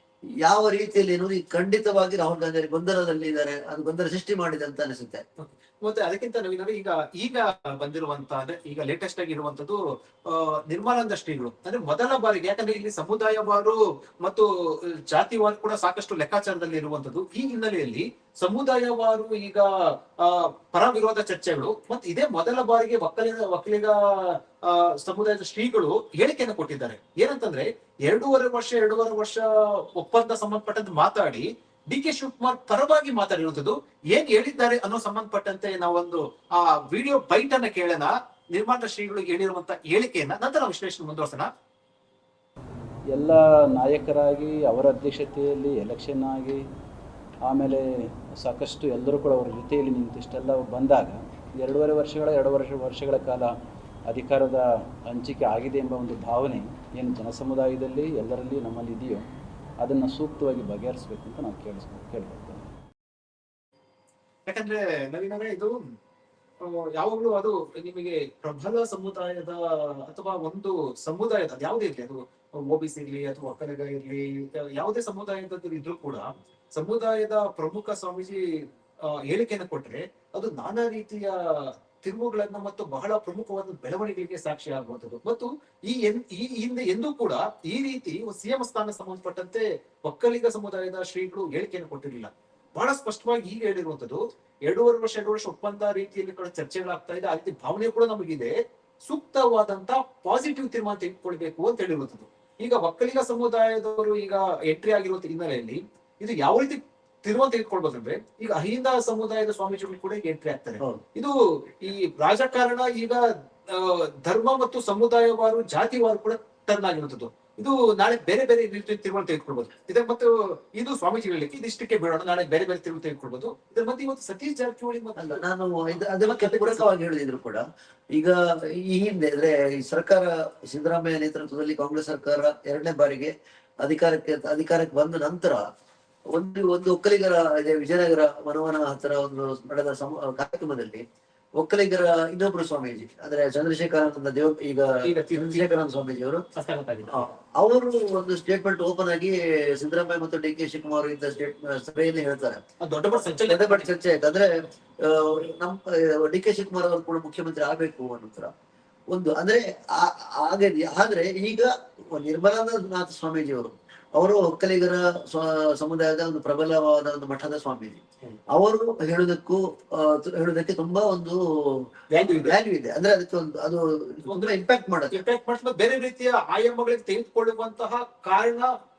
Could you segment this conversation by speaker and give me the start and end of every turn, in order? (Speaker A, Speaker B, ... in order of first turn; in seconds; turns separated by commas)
Speaker A: 0.4-5.2, Speaker B: 5.4-41.5, Speaker C: 43.1-46.6, Speaker C: 47.5-53.5, Speaker C: 54.1-59.3, Speaker C: 59.8-62.6, Speaker B: 64.5-65.7, Speaker B: 66.6-78.4, Speaker B: 79.1-125.4, Speaker A: 125.2-135.6, Speaker B: 126.2-126.8, Speaker A: 136.3-141.0, Speaker A: 141.6-146.4, Speaker B: 145.0-145.7, Speaker B: 146.6-147.3, Speaker A: 147.1-152.6, Speaker B: 152.8-153.9, Speaker A: 153.1-158.5, Speaker A: 159.1-175.2, Speaker B: 172.1-172.6, Speaker B: 174.3-174.6, Speaker B: 175.1-178.7